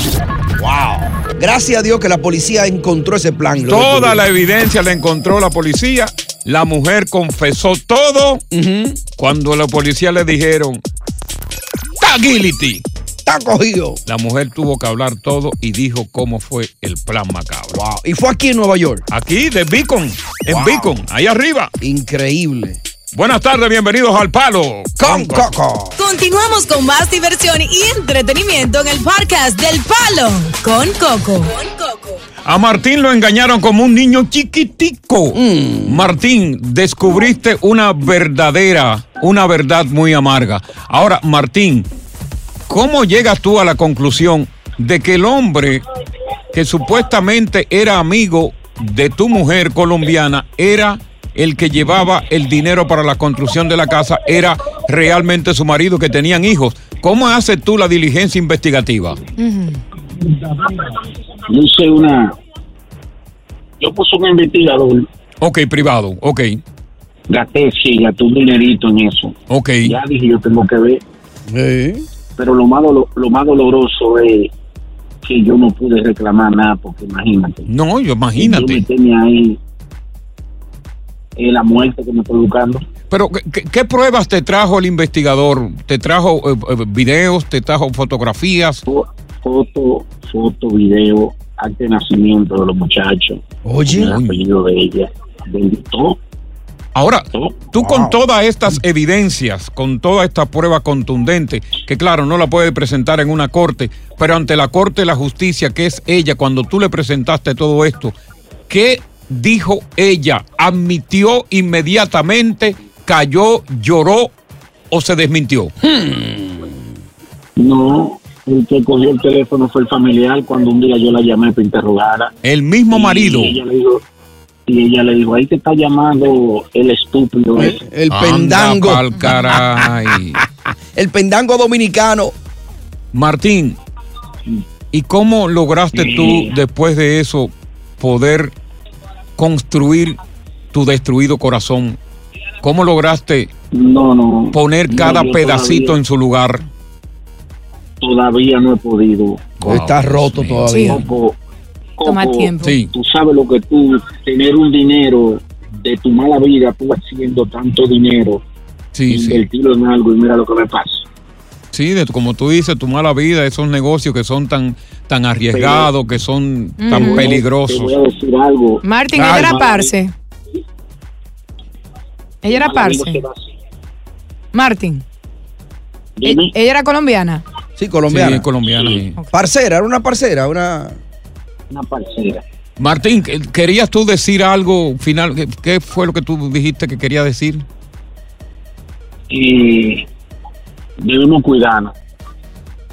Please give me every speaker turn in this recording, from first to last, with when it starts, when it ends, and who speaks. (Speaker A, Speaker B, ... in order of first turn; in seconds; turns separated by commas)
Speaker A: 0.6-4.2, Speaker B: 3.6-8.4, Speaker A: 8.5-9.0, Speaker B: 9.2-10.8, Speaker B: 12.0-12.8, Speaker A: 13.2-14.0, Speaker B: 14.1-17.8, Speaker A: 17.7-19.0, Speaker B: 19.1-21.7, Speaker A: 20.5-20.9, Speaker A: 21.8-22.8, Speaker B: 23.1-25.5, Speaker A: 25.0-26.0, Speaker C: 26.0-32.2, Speaker B: 32.5-41.9, Speaker A: 35.3-36.1, Speaker B: 42.7-45.8, Speaker B: 46.5-59.2, Speaker D: 59.4-59.8, Speaker E: 61.5-62.4, Speaker E: 63.8-65.1, Speaker B: 65.4-66.6, Speaker E: 67.3-71.0, Speaker B: 69.5-70.0, Speaker A: 71.5-72.0, Speaker E: 72.4-74.5, Speaker E: 75.2-77.7, Speaker B: 77.7-78.8, Speaker E: 78.4-79.6, Speaker E: 81.4-82.8, Speaker B: 83.1-88.8, Speaker E: 88.9-93.4, Speaker A: 93.6-94.2, Speaker B: 93.9-94.4, Speaker E: 94.0-96.2, Speaker B: 97.0-108.1, Speaker E: 97.3-97.7, Speaker A: 97.8-98.2, Speaker B: 108.7-114.3, Speaker B: 114.9-115.7, Speaker A: 115.8-116.9, Speaker E: 117.6-122.3, Speaker B: 122.4-123.6, Speaker E: 122.9-124.0, Speaker E: 124.7-127.8, Speaker A: 127.6-129.8, Speaker B: 128.1-130.4, Speaker A: 130.9-132.3, Speaker B: 133.1-133.8, Speaker B: 134.9-138.5, Speaker E: 135.9-136.5, Speaker B: 139.4-140.2, Speaker B: 140.7-142.0, Speaker B: 142.6-143.5, Speaker E: 143.7-146.0, Speaker B: 144.5-146.6, Speaker E: 148.0-149.6, Speaker B: 149.6-150.7, Speaker A: 149.6-151.0, Speaker D: 150.7-151.0, Speaker E: 150.9-151.4, Speaker E: 152.0-158.4, Speaker D: 152.1-152.8, Speaker B: 152.6-152.9, Speaker B: 158.9-159.5, Speaker E: 159.1-161.1, Speaker B: 161.7-167.9, Speaker E: 165.5-165.9, Speaker D: 166.8-167.4, Speaker E: 166.9-169.9, Speaker D: 168.8-170.1, Speaker A: 169.1-169.5, Speaker D: 172.4-173.2, Speaker E: 172.5-173.4, Speaker D: 174.5-175.0, Speaker E: 176.2-176.5, Speaker D: 176.2-177.4, Speaker A: 177.8-178.5, Speaker B: 178.1-179.2, Speaker A: 179.3-181.0, Speaker E: 181.7-182.4, Speaker B: 182.8-187.6, Speaker E: 189.3-190.1, Speaker E: 191.0-191.9